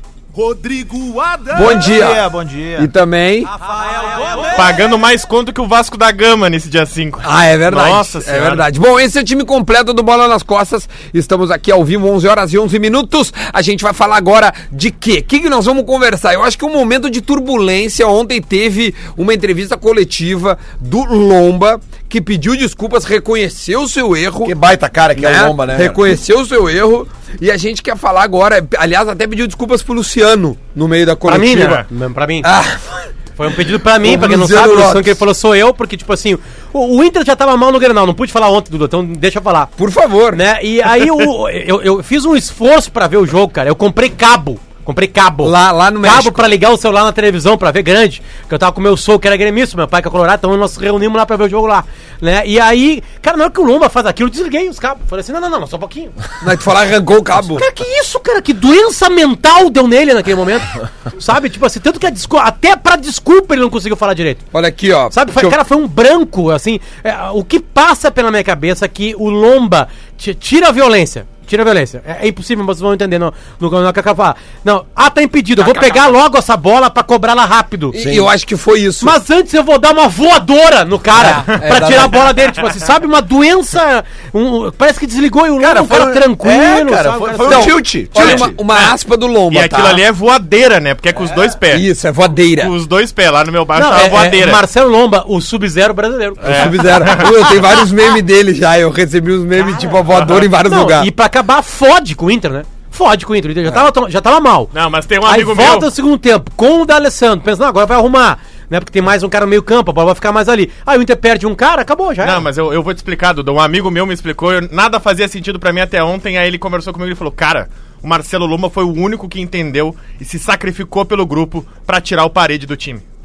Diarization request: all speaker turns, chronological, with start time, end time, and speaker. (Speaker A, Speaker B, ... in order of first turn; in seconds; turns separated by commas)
Speaker A: 0.3-2.9, Speaker B: 1.5-3.5, Speaker C: 3.5-4.7, Speaker A: 3.8-4.7, Speaker D: 4.5-8.7, Speaker B: 7.2-24.6, Speaker E: 24.4-26.0, Speaker B: 25.1-31.8, Speaker C: 31.3-32.5, Speaker B: 32.4-33.1, Speaker C: 33.4-39.7, Speaker B: 34.0-35.2, Speaker B: 39.8-40.4, Speaker C: 40.3-56.1, Speaker B: 45.4-46.5, Speaker B: 56.4-57.7, Speaker C: 57.5-64.4, Speaker B: 64.5-65.6, Speaker C: 65.1-78.0, Speaker B: 75.6-76.1, Speaker B: 77.9-79.2, Speaker E: 78.0-78.3, Speaker C: 79.0-87.8, Speaker B: 81.1-82.2, Speaker E: 85.6-88.6, Speaker B: 87.5-90.0, Speaker D: 88.1-89.0, Speaker D: 89.5-91.9, Speaker B: 91.6-92.7, Speaker D: 92.6-94.6, Speaker C: 93.8-96.6, Speaker B: 96.4-101.1, Speaker D: 96.4-97.5, Speaker D: 100.1-100.5, Speaker C: 100.7-112.4, Speaker D: 104.7-105.9, Speaker D: 112.2-123.0